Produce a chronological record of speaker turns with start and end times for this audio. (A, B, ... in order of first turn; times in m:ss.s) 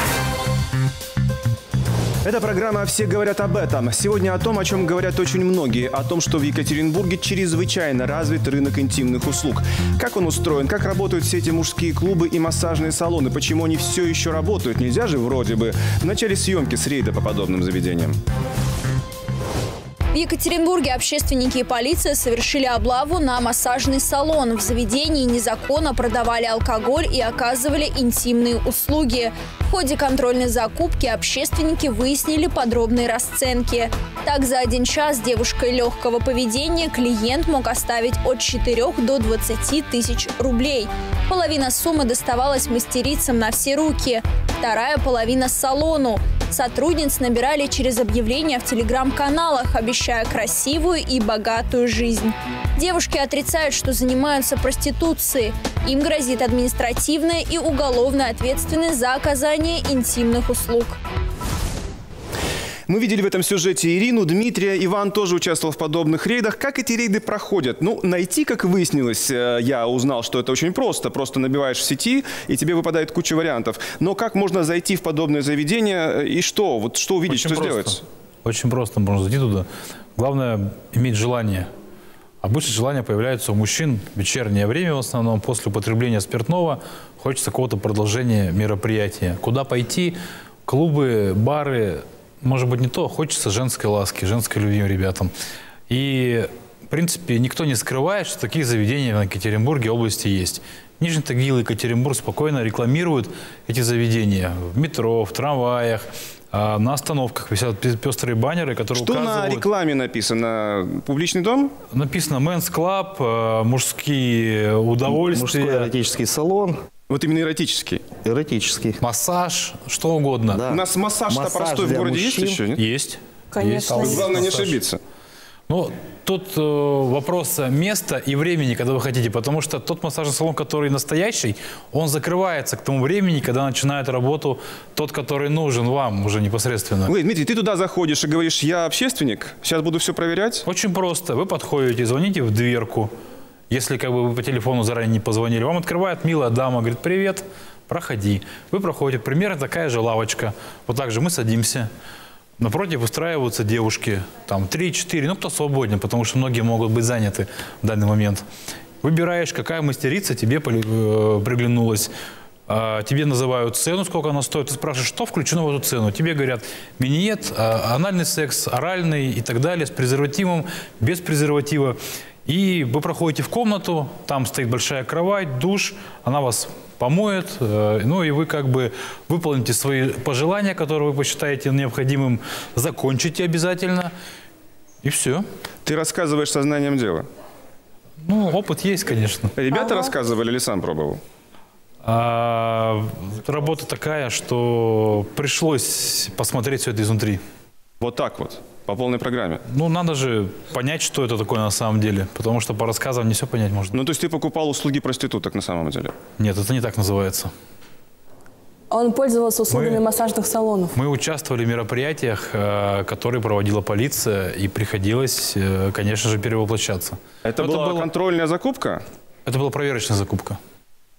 0:02.2-0:18.2 A
0:20.1-1:01.0 B
1:02.9-1:18.0 A
1:17.3-1:19.6 C
1:20.2-1:21.7 C
1:22.4-1:35.3 C
1:35.9-1:49.7 C
1:48.9-1:51.7 A
1:51.9-1:55.9 C
1:55.1-1:56.8 D
1:57.1-1:58.1 A
1:58.1-1:59.0 D
1:59.0-2:00.6 C
2:00.5-2:02.6 D
2:00.7-2:02.8 A
2:02.8-2:04.8 C
2:03.5-2:04.3 E
2:03.9-2:05.0 A
2:05.7-2:17.1 C
2:17.0-2:20.6 A
2:20.6-2:23.1 C
2:23.7-2:31.9 C
2:32.6-2:38.4 C
2:39.0-2:42.1 C
2:42.7-3:04.1 C
3:05.0-3:05.4 C
3:05.8-3:07.2 A
3:08.2-3:09.5 C
3:09.6-3:11.2 A
3:09.7-3:10.1 E
3:12.0-3:17.4 C
3:18.0-3:19.6 A
3:19.7-3:24.0 C
3:23.9-3:26.1 A
3:26.4-3:27.5 C
3:28.9-3:30.9 E
3:29.7-3:30.0 C
3:30.9-3:38.1 C
3:37.4-3:39.0 A
3:39.4-3:40.6 C